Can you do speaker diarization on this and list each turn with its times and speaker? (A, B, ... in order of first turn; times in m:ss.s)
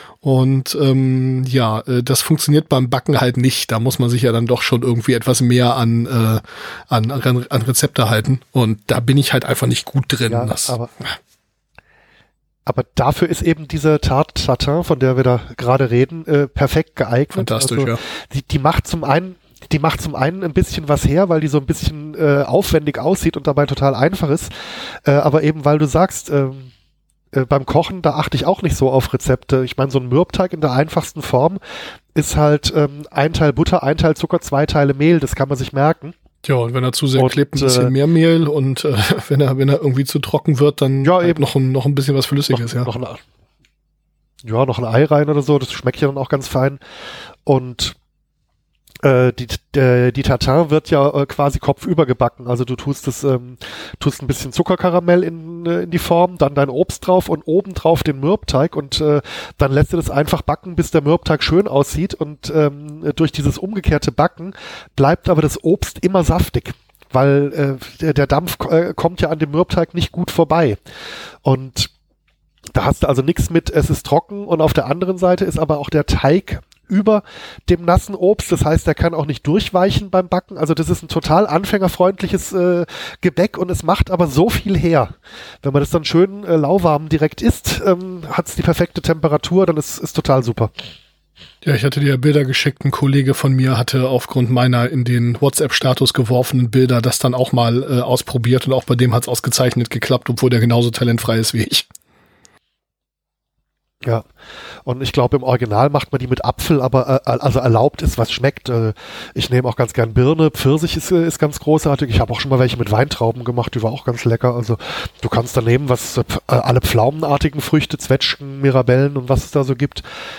0:00.2-0:10.8 A
0:10.3-0:10.9 B
0:12.6-0:26.7 B
0:17.3-0:18.0 A
0:27.3-0:31.6 B
0:32.1-0:36.1 B
0:36.4-0:42.9 A
0:37.2-0:37.9 B
0:41.0-0:41.5 B
0:42.5-0:43.2 B
0:44.4-0:46.8 B
0:47.4-0:48.0 B
0:49.0-1:10.8 B
1:11.4-1:11.9 B
1:12.7-1:30.7 B
1:31.6-1:41.9 A
1:44.8-2:00.0 B